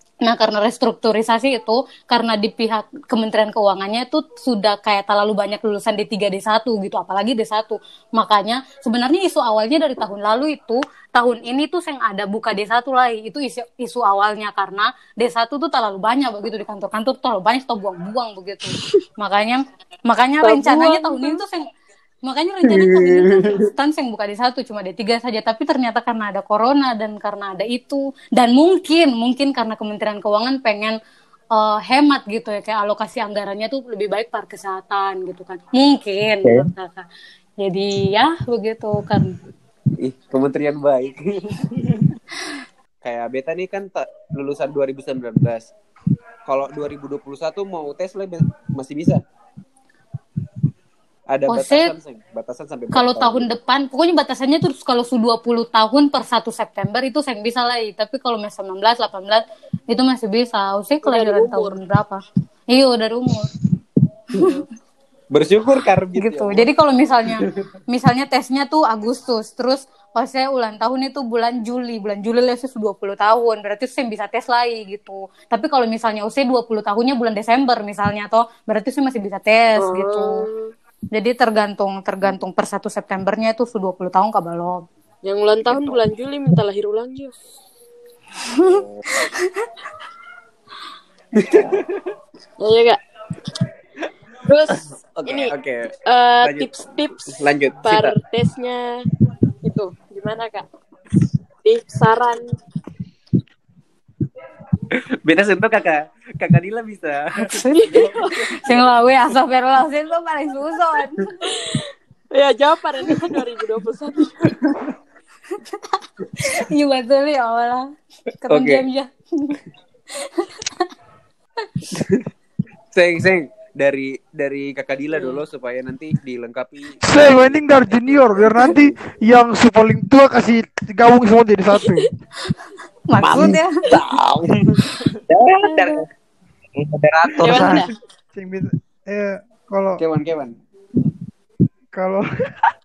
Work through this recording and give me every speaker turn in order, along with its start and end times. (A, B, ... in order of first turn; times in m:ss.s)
0:00.2-0:21.7 A
0:20.4-0:21.4 B
0:22.2-0:31.0 A
0:22.6-0:23.7 C
0:31.5-0:37.1 A
0:36.4-0:36.7 D
0:37.6-0:39.4 A
0:40.0-0:42.1 C
0:43.0-0:45.7 C
0:46.5-0:49.2 C
0:51.3-0:53.5 C
0:51.5-0:51.9 A
0:52.9-1:03.5 A
1:01.0-1:01.8 B
1:04.3-1:04.6 A
1:05.3-1:06.7 C
1:06.2-1:20.4 A
1:19.8-1:20.7 B
1:21.1-1:24.9 A
1:25.2-1:27.3 B
1:28.4-1:29.7 A
1:28.6-1:29.0 C
1:31.3-1:32.0 C
1:32.6-1:33.0 B
1:34.4-1:37.3 B
1:34.8-1:35.9 C
1:36.4-1:36.7 C
1:37.3-1:38.2 C
1:37.8-1:39.0 B
1:39.6-1:40.7 B
1:41.6-1:42.4 B
1:44.9-1:49.0 C
1:47.4-1:48.0 A
1:47.8-1:48.3 B
1:48.6-1:51.5 A
1:51.5-1:54.4 B
1:54.3-1:54.9 C
1:55.5-1:59.6 A
1:56.2-1:56.6 C
1:58.5-1:58.8 C
2:00.1-2:00.9 A
2:01.9-2:02.2 C
2:02.9-2:09.0 C
2:05.1-2:05.4 B
2:07.1-2:12.0 E
2:11.7-2:12.0 B
2:13.1-2:13.8 A
2:13.2-2:15.2 C
2:15.3-2:16.1 D
2:15.6-2:16.0 A
2:16.7-2:17.8 D
2:17.4-2:17.9 B
2:18.3-2:20.0 E
2:20.0-2:20.6 C
2:21.9-2:22.2 E